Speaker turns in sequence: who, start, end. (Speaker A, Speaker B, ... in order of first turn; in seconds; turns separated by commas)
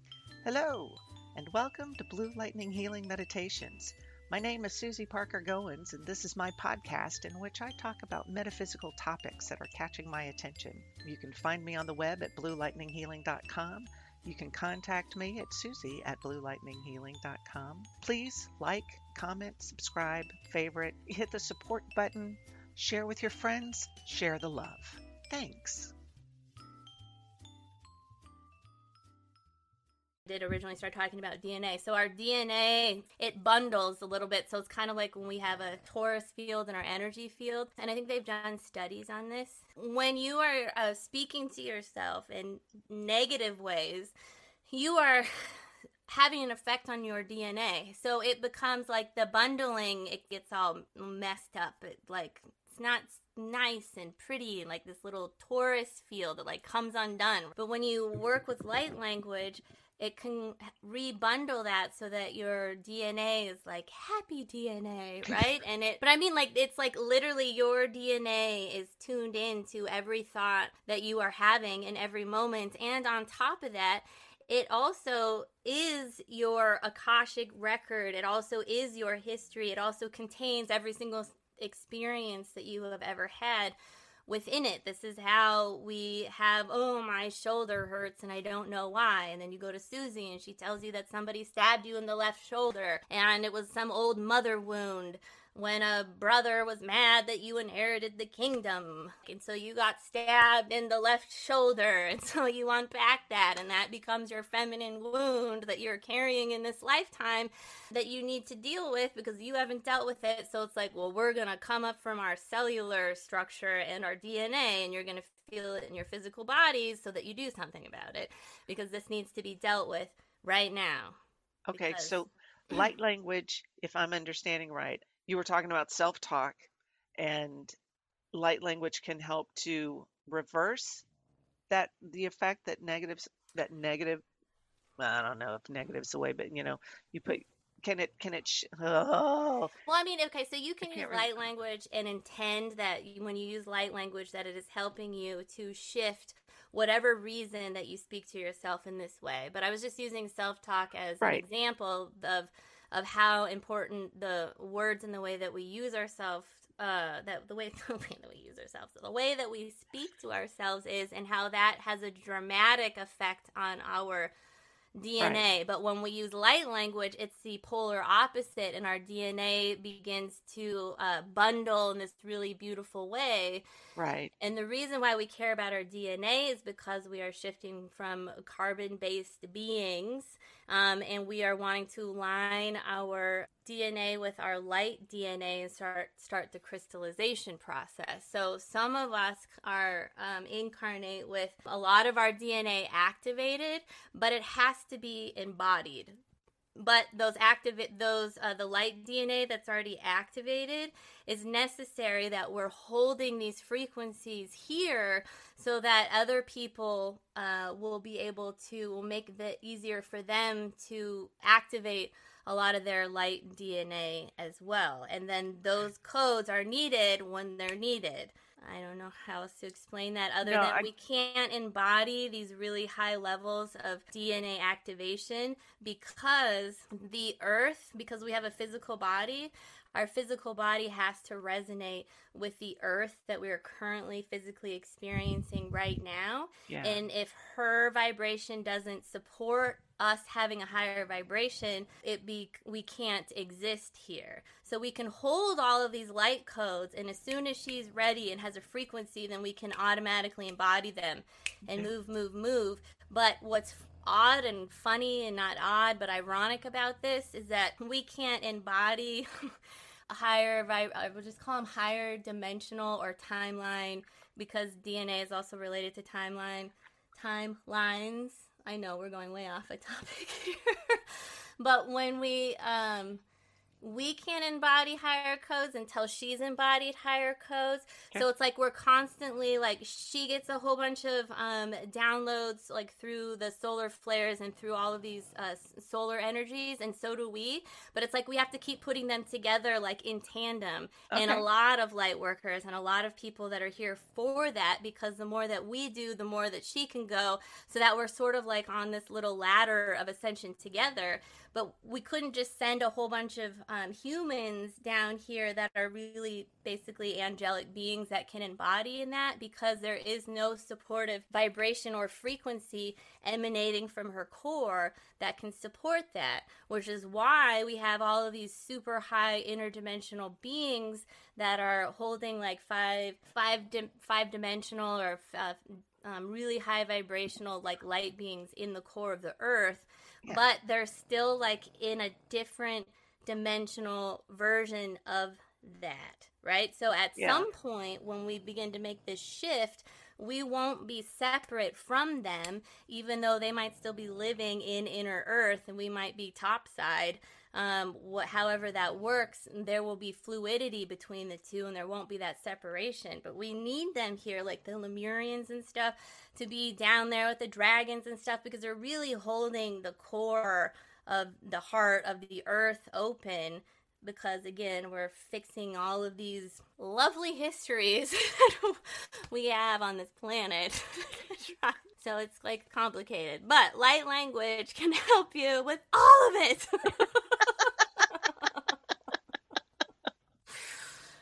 Speaker A: 0.4-25.9, Speaker B: 30.2-44.1, Speaker B: 44.7-121.2, Speaker A: 121.7-127.7, Speaker B: 121.7-122.2, Speaker A: 128.3-131.1, Speaker A: 131.7-134.2, Speaker A: 135.0-139.7, Speaker B: 139.8-164.3, Speaker A: 140.8-141.4, Speaker B: 164.9-173.7, Speaker A: 174.0-174.3, Speaker B: 174.4-196.2, Speaker B: 196.8-259.5, Speaker A: 220.4-220.9, Speaker A: 236.7-237.0, Speaker B: 260.1-273.2, Speaker B: 273.8-378.8, Speaker A: 291.1-291.4, Speaker A: 337.1-337.4, Speaker B: 380.5-380.8